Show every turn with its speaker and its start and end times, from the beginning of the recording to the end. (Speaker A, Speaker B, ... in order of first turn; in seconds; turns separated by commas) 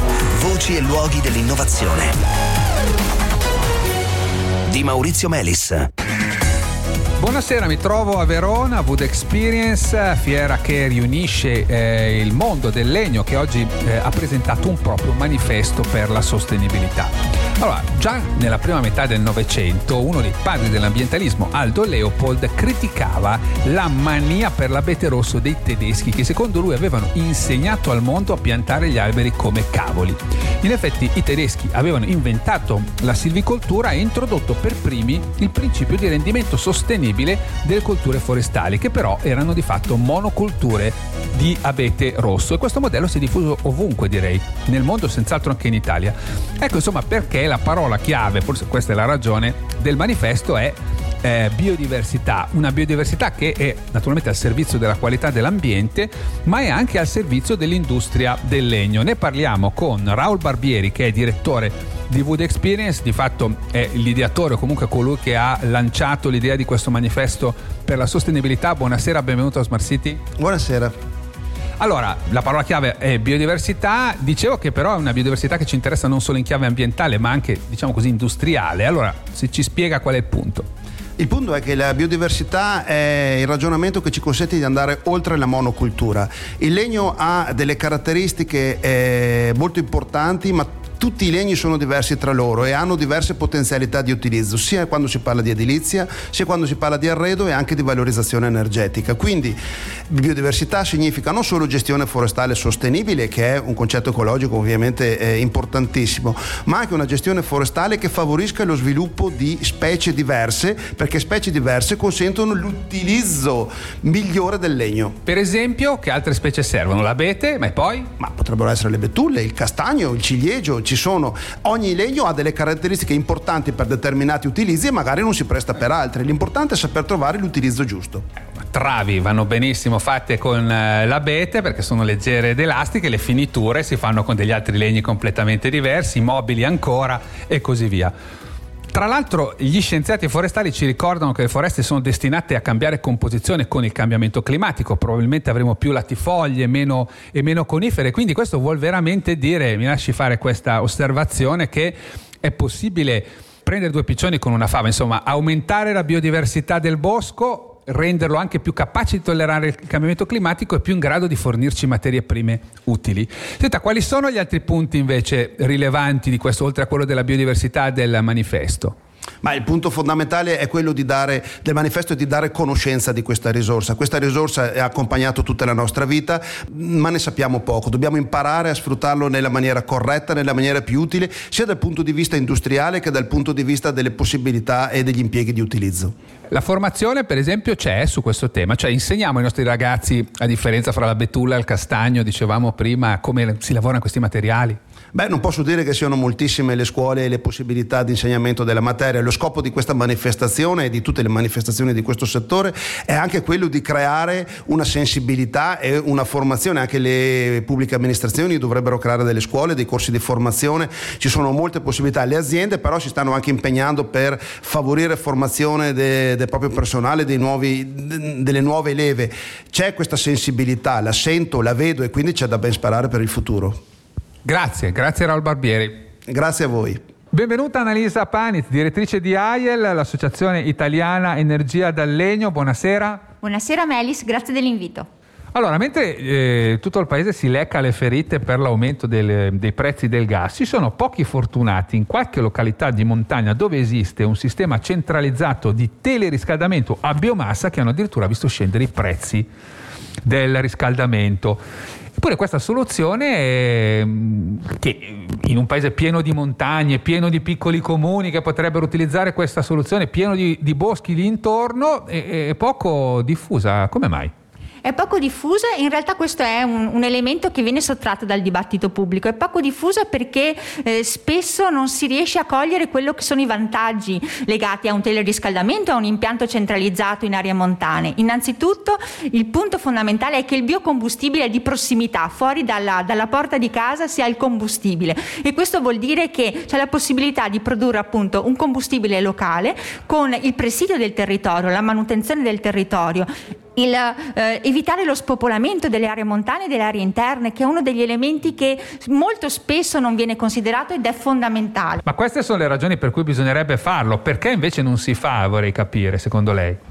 Speaker A: 0.3-2.2, Speaker A: 4.7-5.9, Speaker B: 7.2-70.2, Speaker C: 70.4-70.9, Speaker B: 71.8-80.7, Speaker C: 81.2-99.6, Speaker C: 100.1-115.2, Speaker B: 115.2-118.1, Speaker C: 118.2-128.2, Speaker B: 128.6-138.1, Speaker B: 138.9-168.9, Speaker C: 169.4-186.1, Speaker B: 186.5-194.8, Speaker C: 195.1-223.8, Speaker B: 224.4-226.0, Speaker C: 226.3-227.0, Speaker B: 227.3-233.2, Speaker D: 233.4-235.1, Speaker B: 235.5-249.5, Speaker B: 250.2-251.6, Speaker B: 252.2-264.3, Speaker D: 264.8-302.0, Speaker B: 302.0-306.8